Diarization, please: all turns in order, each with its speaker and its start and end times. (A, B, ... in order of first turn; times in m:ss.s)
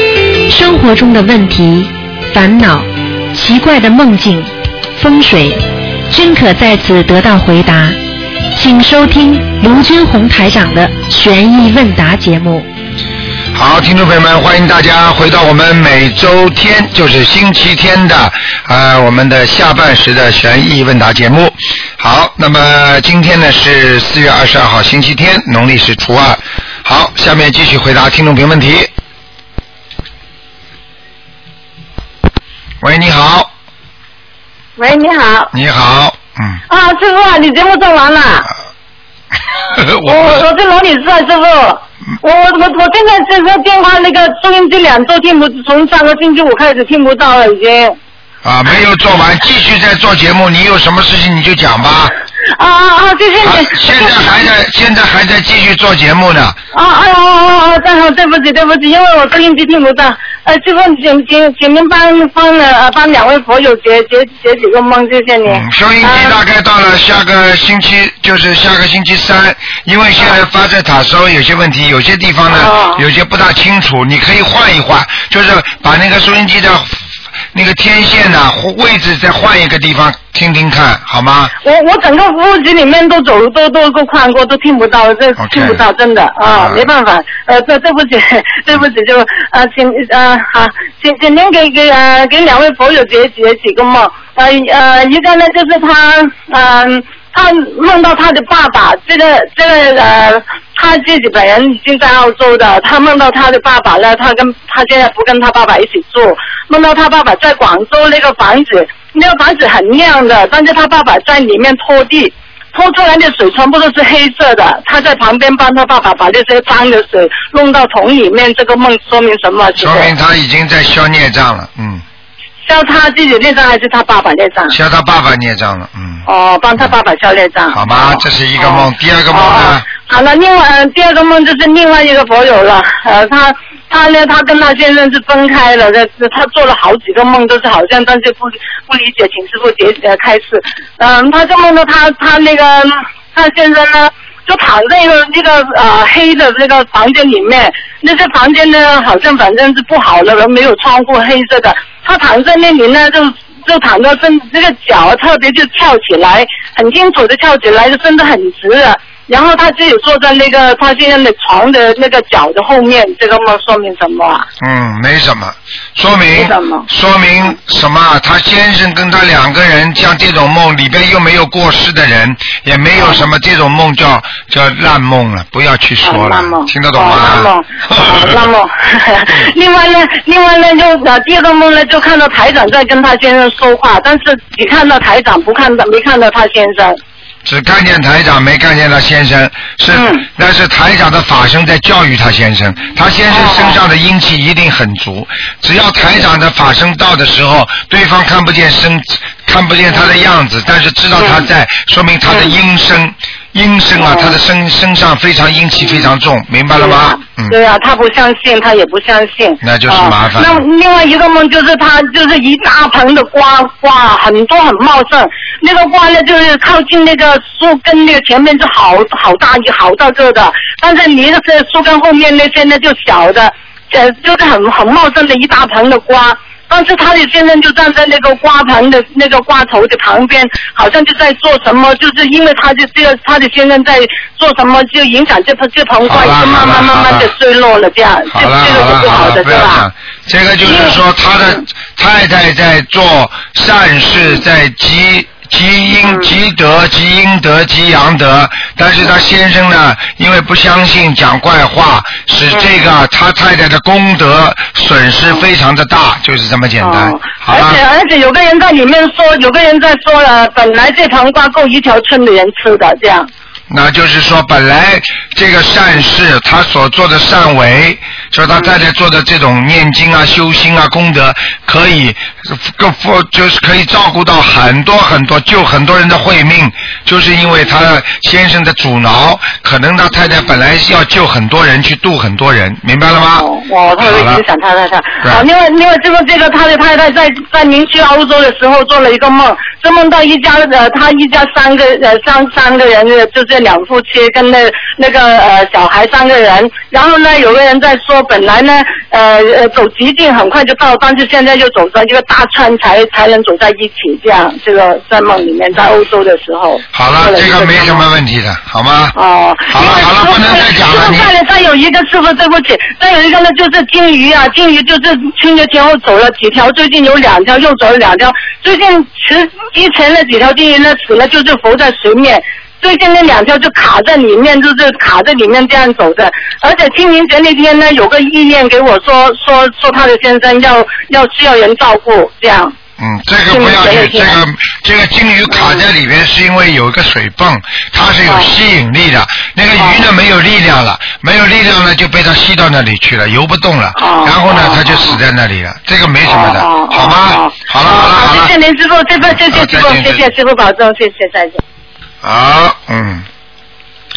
0:00.5-0:08.0 A
0:08.5-0:12.7 A
0:13.5-0:28.9 B
0:32.8-0:33.5 B
0:34.8-0:35.5 C
0:35.5-0:36.6 B
0:36.7-0:38.5 C
0:39.7-0:40.4 B
0:40.0-0:48.0 C
0:48.4-0:52.1 B
0:52.6-0:54.3 C
0:53.4-0:56.6 B
0:56.7-1:06.4 C
1:05.5-1:21.5 B
1:12.5-1:13.0 C
1:21.6-2:00.1 C
1:25.4-1:25.8 B
1:26.4-1:26.9 B
1:59.8-2:02.0 B
2:02.7-2:04.8 C
2:04.7-2:06.3 B
2:06.2-2:44.5 C
2:07.7-2:09.9 B
2:44.6-2:58.5 B
2:46.3-2:46.9 C
2:53.0-2:53.2 C
2:56.0-3:07.0 C
3:07.4-3:27.6 B
3:09.9-3:10.2 C
3:13.3-3:13.8 C
3:21.2-3:21.4 C
3:22.3-3:22.5 C
3:24.0-3:24.4 C
3:26.8-3:59.9 C
3:29.6-3:30.6 B
3:56.0-3:57.3 B
3:58.3-4:17.8 B
4:00.6-4:01.0 C
4:06.0-4:06.3 C
4:16.8-4:23.3 C
4:23.7-4:43.5 B
4:43.3-5:08.0 C
4:44.0-4:44.4 B
5:06.9-5:09.2 B
5:09.2-5:32.7 C
5:09.7-5:11.3 B
5:33.0-5:48.5 B
5:33.5-5:34.4 C
5:35.5-5:35.8 C
5:38.2-5:38.5 C
5:44.0-5:45.2 C
5:46.2-5:51.6 C
5:49.2-5:50.3 B
5:52.2-5:53.2 B